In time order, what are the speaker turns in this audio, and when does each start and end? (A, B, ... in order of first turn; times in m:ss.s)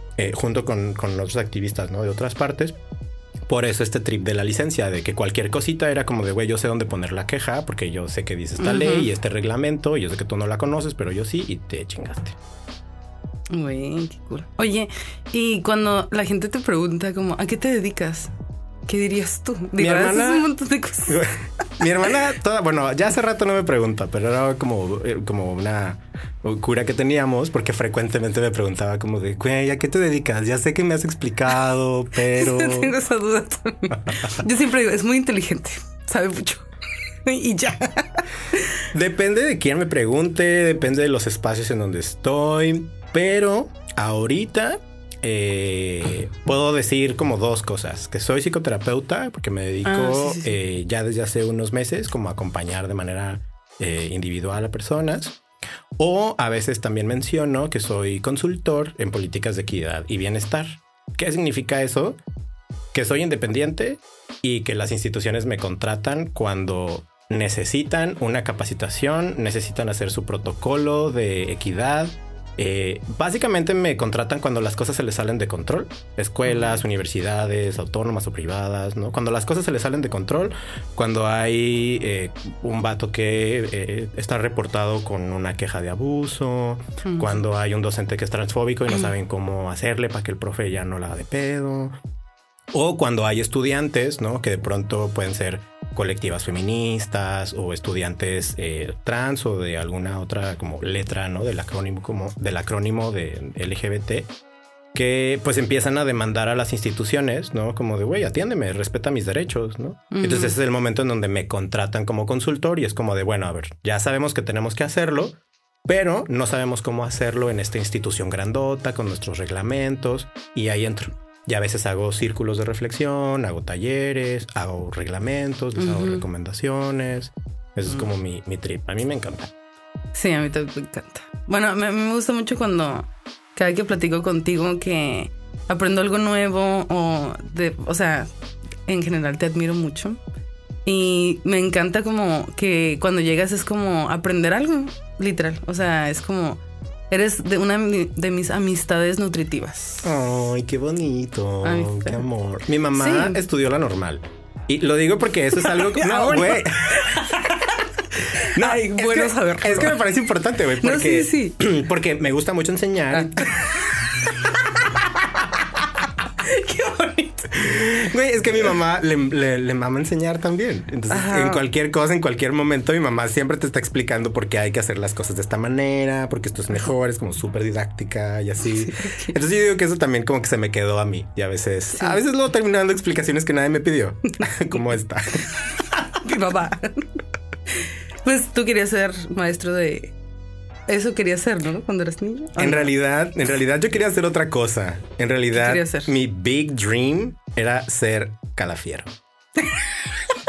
0:00.2-0:02.8 A
0:03.5-0:12.4 A
0:08.6-0:09.1 B
0:13.5-0:18.3 B
0:18.9-0:21.3 B
0:19.8-0:20.5 A
0:21.1-0:33.0 A
0:32.3-0:36.7 B
0:37.2-0:38.8 B
0:38.9-0:55.4 A
0:49.8-0:50.5 B
0:56.0-1:02.2 A
1:02.9-1:32.0 A
1:27.0-1:27.4 B
1:32.7-1:44.3 A
1:44.9-2:09.5 A
1:50.1-1:50.6 B
2:05.8-2:06.2 B
2:10.1-2:18.3 B
2:18.9-2:20.2 B
2:20.9-2:30.1 B
2:30.0-2:37.2 A
2:31.6-2:32.2 B
2:32.9-2:33.4 B
2:35.6-2:37.8 B
2:38.3-2:40.0 B
2:38.4-2:45.1 A
2:40.8-2:41.6 B
2:43.4-2:43.7 B
2:46.4-2:47.6 B
2:47.6-3:05.5 A
2:51.1-2:51.6 B
2:58.8-2:59.3 B
3:01.9-3:02.2 B
3:06.0-3:07.1 B
3:07.8-3:10.1 B
3:10.9-3:12.9 B
3:12.6-3:19.1 A
3:15.6-3:16.1 B
3:19.6-3:20.1 B